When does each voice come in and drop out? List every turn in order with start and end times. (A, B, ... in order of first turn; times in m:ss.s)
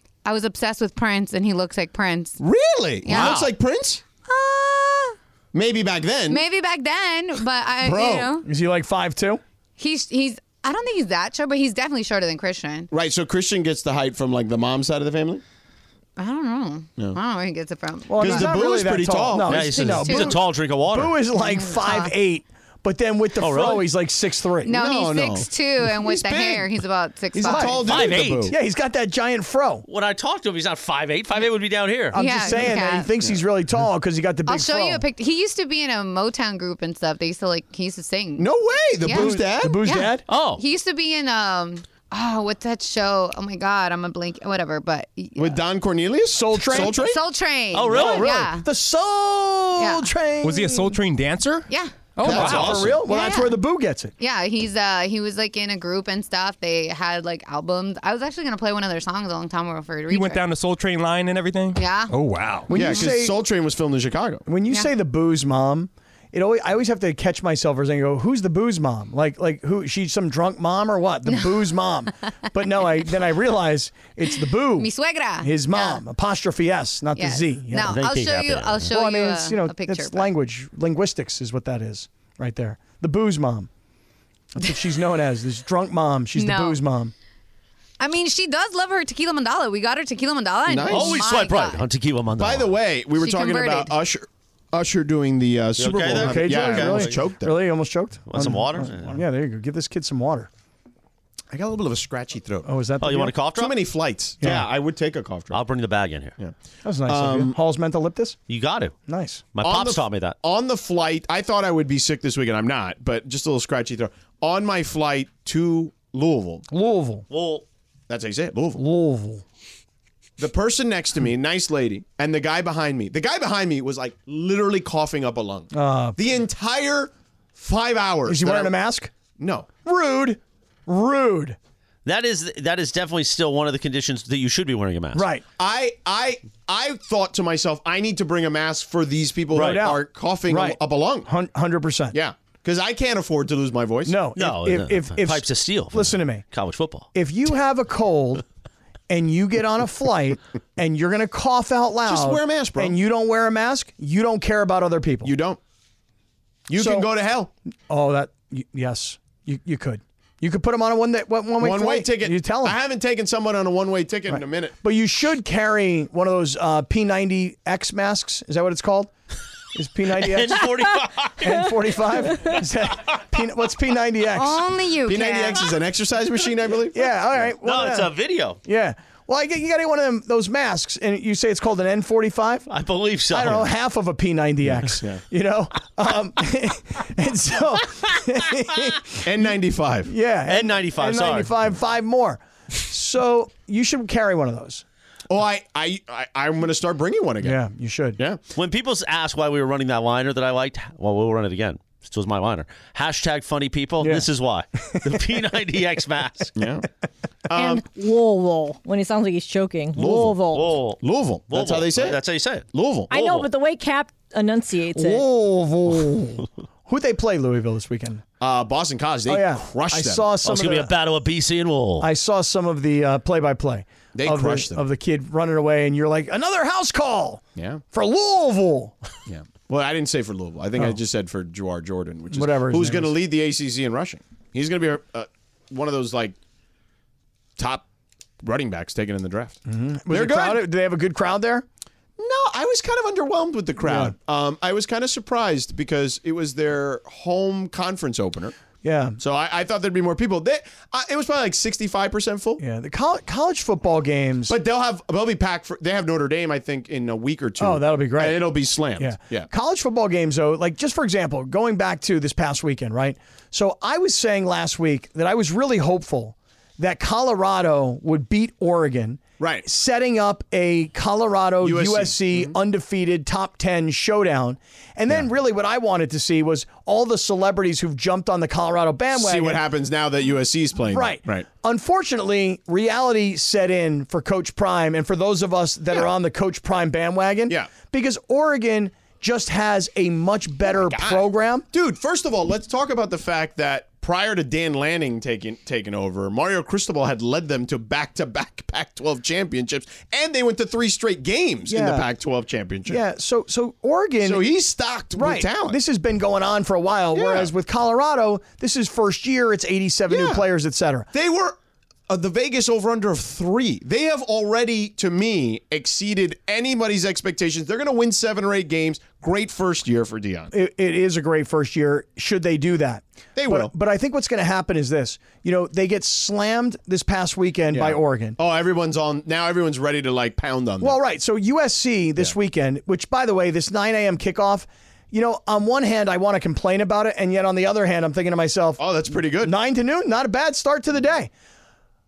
0:00.2-0:02.4 A
0:02.4-0:04.0 B
0:03.0-0:03.5 A
0:03.1-0:03.5 C
0:04.2-0:05.2 A
0:05.5-0:06.4 B
0:06.3-0:08.5 A
0:07.8-0:08.3 B
0:08.4-0:09.4 D
0:09.8-0:12.9 A
0:12.9-0:15.4 B
0:16.2-0:18.6 A
0:18.1-0:24.8 D
0:18.2-0:19.8 B
0:19.4-0:21.2 C
0:19.7-0:20.4 A
0:21.4-0:22.1 A
0:23.4-0:23.9 C
0:24.6-0:27.9 A
0:24.7-0:26.7 B
0:27.3-0:28.6 B
0:27.4-0:29.8 D
0:27.8-0:28.5 C
0:29.8-0:32.2 C
0:32.1-0:35.0 D
0:32.2-0:33.1 A
0:34.4-0:38.5 A
0:38.4-0:39.8 B
0:39.0-0:39.3 A
0:39.1-0:40.2 D
0:39.8-0:45.6 A
0:40.3-0:40.6 C
0:45.4-0:47.2 B
0:46.3-0:47.1 D
0:46.7-0:48.7 A
0:47.7-0:48.4 C
0:47.9-0:51.0 D
0:49.8-0:50.1 A
0:50.4-0:52.8 E
0:51.7-0:52.5 A
0:52.2-0:53.0 B
0:52.2-0:54.1 D
0:53.1-0:53.6 A
0:54.2-1:00.4 A
1:00.1-1:02.7 E
1:01.8-1:02.1 A
1:02.7-1:03.4 D
1:02.7-1:04.4 B
1:04.4-1:14.9 D
1:14.8-1:16.0 A
1:15.4-1:18.0 D
1:17.2-1:20.3 A
1:17.8-1:18.9 C
1:18.9-1:23.7 D
1:24.5-1:27.1 D
1:26.4-1:26.8 A
1:28.0-1:31.8 A
1:30.7-1:31.2 B
1:30.9-1:32.7 C
1:32.4-1:37.5 B
1:33.2-1:33.9 A
1:35.8-1:37.2 C
1:36.1-1:40.5 D
1:38.3-1:39.2 C
1:41.5-1:42.7 B
1:42.6-1:43.4 D
1:43.0-1:43.8 C
1:43.5-1:45.6 B
1:44.4-1:44.6 D
1:44.4-1:44.7 C
1:45.5-1:46.3 C
1:46.8-1:48.4 D
1:47.1-1:47.6 B
1:48.5-1:48.9 C
1:49.1-1:49.4 D
1:49.5-1:50.4 C
1:49.6-1:56.6 B
1:56.7-1:57.2 D
1:57.3-1:57.6 C
1:58.1-1:58.8 B
1:58.8-1:59.4 D
2:00.4-2:08.7 B
2:05.7-2:06.2 D
2:08.3-2:09.1 D
2:09.4-2:09.7 B
2:09.8-2:11.6 D
2:12.0-2:15.3 C
2:15.1-2:15.4 D
2:15.6-2:21.3 B
2:19.5-2:19.9 C
2:19.6-2:22.2 D
2:22.1-2:24.2 B
2:24.0-2:26.4 D
2:24.3-2:27.1 C
2:27.1-2:28.4 D
2:29.1-2:35.3 D
2:32.0-2:33.0 B
2:35.2-2:35.6 B
2:36.7-2:37.5 B
2:36.8-2:37.1 D
2:37.9-2:42.8 D
2:41.6-2:44.7 B
2:44.3-2:49.1 D
2:49.7-2:54.6 D
2:50.2-2:52.5 C
2:54.2-2:55.8 A
2:55.0-2:57.1 B
2:56.9-2:58.1 D
2:57.6-2:58.6 C
2:58.6-3:02.7 D
3:02.7-3:03.7 C
3:03.3-3:14.8 D
3:04.9-3:05.2 B
3:09.2-3:10.1 B
3:10.5-3:11.5 C
3:15.3-3:17.6 B
3:17.4-3:18.2 D
3:18.6-3:26.5 C
3:24.0-3:24.3 D
3:26.6-3:26.8 B
3:27.5-3:27.8 B
3:27.5-3:30.6 F
3:30.0-3:30.4 B
3:30.5-3:33.5 C
3:31.0-3:32.2 B
3:32.7-3:33.1 B
3:33.1-3:35.2 F
3:34.9-3:38.2 D
3:38.4-3:40.3 B
3:39.3-3:40.9 D
3:40.4-3:42.1 C
3:42.0-3:49.0 D
3:44.1-3:44.8 B
3:47.6-3:47.8 B
3:49.3-3:56.3 B
3:52.3-3:53.1 D
3:57.6-3:57.8 B
3:58.4-3:59.6 B
3:59.7-4:01.6 D
4:00.1-4:00.6 B
4:02.2-4:08.5 B
4:03.8-4:04.1 D
4:08.8-4:09.2 D
4:09.2-4:12.6 B
4:12.6-4:14.6 D
4:14.5-4:19.5 B
4:17.6-4:39.6 D
4:29.4-4:29.6 B
4:31.6-4:32.5 B
4:39.1-4:41.4 B
4:40.9-4:51.6 D
4:50.7-5:03.0 B
5:01.7-5:02.1 D
5:02.9-5:04.5 D
5:04.2-5:05.8 B
5:05.2-5:11.1 D
5:07.1-5:07.5 B
5:10.1-5:10.4 B
5:11.1-5:11.6 B
5:12.1-5:20.5 B
5:20.5-5:28.4 D
5:23.4-5:23.7 B
5:27.7-5:31.0 B
5:30.8-5:38.8 D
5:38.8-5:39.5 B
5:39.4-5:41.3 D